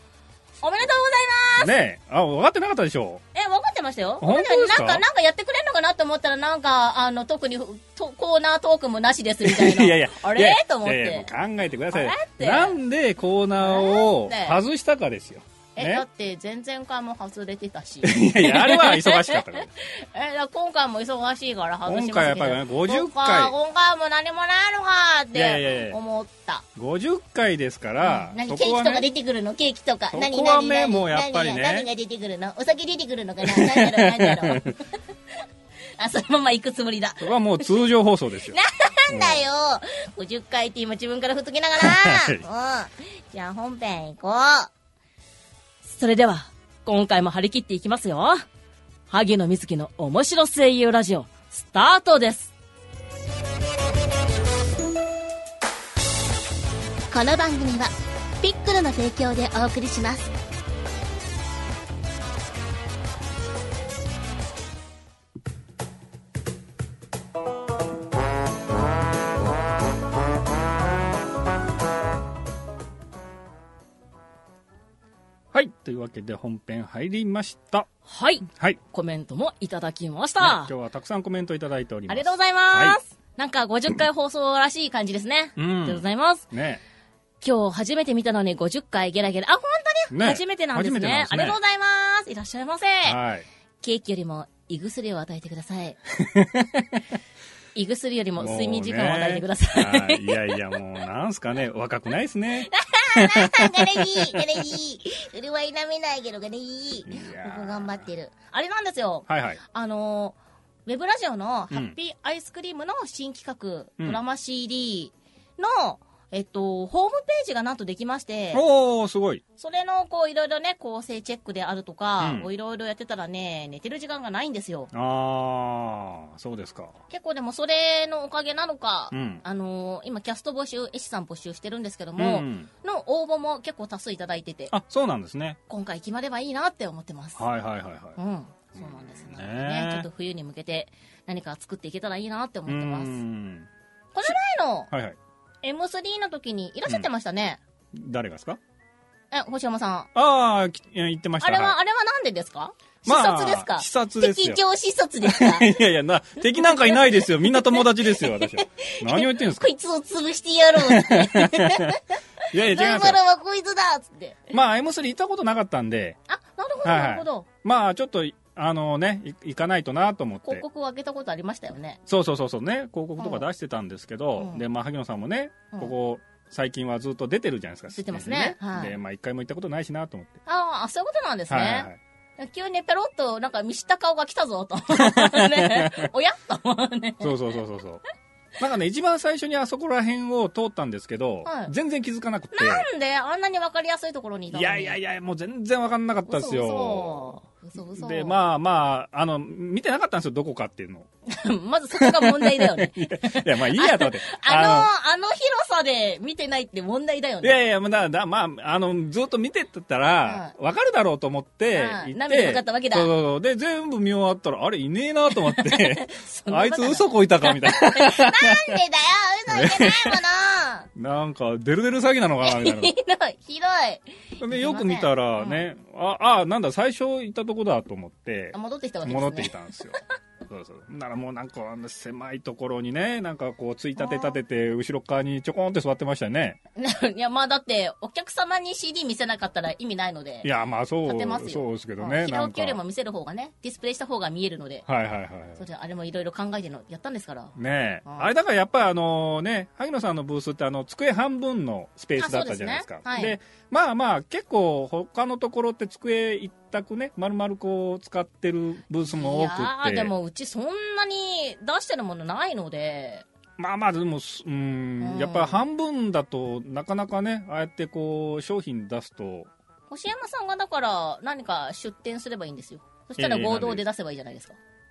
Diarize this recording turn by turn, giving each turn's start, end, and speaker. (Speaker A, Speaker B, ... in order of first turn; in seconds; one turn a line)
Speaker A: 0.6-1.7
Speaker B: 1.6-3.2
Speaker A: 3.3-11.3
Speaker B: 4.2-5.0
Speaker B: 9.4-16.0
Speaker A: 11.9-12.8
Speaker A: 13.6-14.6
Speaker A: 15.8-26.6
Speaker B: 18.0-19.7
Speaker B: 21.9-23.5
Speaker B: 25.3-26.0
Speaker B: 26.8-29.1
Speaker A: 28.0-34.9
Speaker B: 30.1-31.9
Speaker B: 33.4-34.7
Speaker A: 36.0-37.8
Speaker B: 37.2-38.6
Speaker A: 38.5-44.7
Speaker B: 39.1-39.5
Speaker B: 41.8-42.4
Speaker A: 45.8-48.4
Speaker A: 49.1-52.5
Speaker A: 57.1-60.3
Speaker B: 75.5-77.9
Speaker A: 78.0-80.7
Speaker B: 78.5-78.8
Speaker B: 80.4-83.0
Speaker A: 82.1-86.5
Speaker B: 85.5-86.8
Speaker A: 87.4-93.2
Speaker B: 90.1-91.6
Speaker B: 93.0-93.5
Speaker A: 93.8-96.0
Speaker B: 96.1-97.0
Speaker A: 97.7-100.6
Speaker B: 98.4-104.4
Speaker A: 102.6-118.6
Speaker B: 107.1-108.0
Speaker B: 109.3-109.6
Speaker B: 118.5-119.4
Speaker A: 119.6-124.9
Speaker B: 122.2-122.5
Speaker B: 124.9-127.0
Speaker A: 127.1-134.7
Speaker B: 129.1-129.4
Speaker B: 132.2-132.7
Speaker B: 134.7-135.6
Speaker A: 135.7-137.4
Speaker B: 137.4-138.2
Speaker A: 138.2-143.1
Speaker B: 138.7-140.1
Speaker B: 142.7-143.7
Speaker A: 144.1-144.9
Speaker B: 144.9-145.2
Speaker A: 145.6-147.6
Speaker B: 147.9-148.6
Speaker A: 149.3-150.1
Speaker B: 150.1-151.7
Speaker A: 151.4-155.7
Speaker B: 153.0-154.6
Speaker B: 155.2-159.7
Speaker A: 156.6-164.5
Speaker B: 160.8-162.0
Speaker B: 162.5-163.2
Speaker B: 164.5-166.2
Speaker A: 166.3-167.5
Speaker B: 166.8-170.6
Speaker A: 170.4-172.0
Speaker B: 172.1-180.4
Speaker A: 173.2-173.4
Speaker A: 174.4-174.6
Speaker A: 177.9-178.9
Speaker A: 180.4-187.4
Speaker B: 181.5-182.0
Speaker B: 184.9-186.1
Speaker B: 187.2-188.0
Speaker B: 188.6-192.9
Speaker A: 191.4-191.7
Speaker A: 192.5-195.0
Speaker B: 194.5-197.3
Speaker A: 196.2-198.4
Speaker B: 197.9-201.1
Speaker A: 201.3-207.6
Speaker B: 202.0-204.9
Speaker B: 207.4-218.8
Speaker A: 210.2-210.5
Speaker A: 211.7-213.1
Speaker A: 215.4-220.9
Speaker B: 219.5-220.2
Speaker B: 220.9-222.9
Speaker A: 222.4-225.6
Speaker B: 224.4-236.6
Speaker A: 228.5-229.5
Speaker A: 234.0-234.4
Speaker A: 236.8-240.5
Speaker B: 240.4-242.8
Speaker A: 241.0-244.8
Speaker B: 244.8-245.6
Speaker A: 245.6-247.5
Speaker B: 247.6-260.1
Speaker A: 248.0-248.3
Speaker A: 252.2-253.4
Speaker A: 259.1-263.2
Speaker B: 263.6-269.5
Speaker A: 265.0-265.6
Speaker A: 269.9-274.6
Speaker B: 273.2-273.8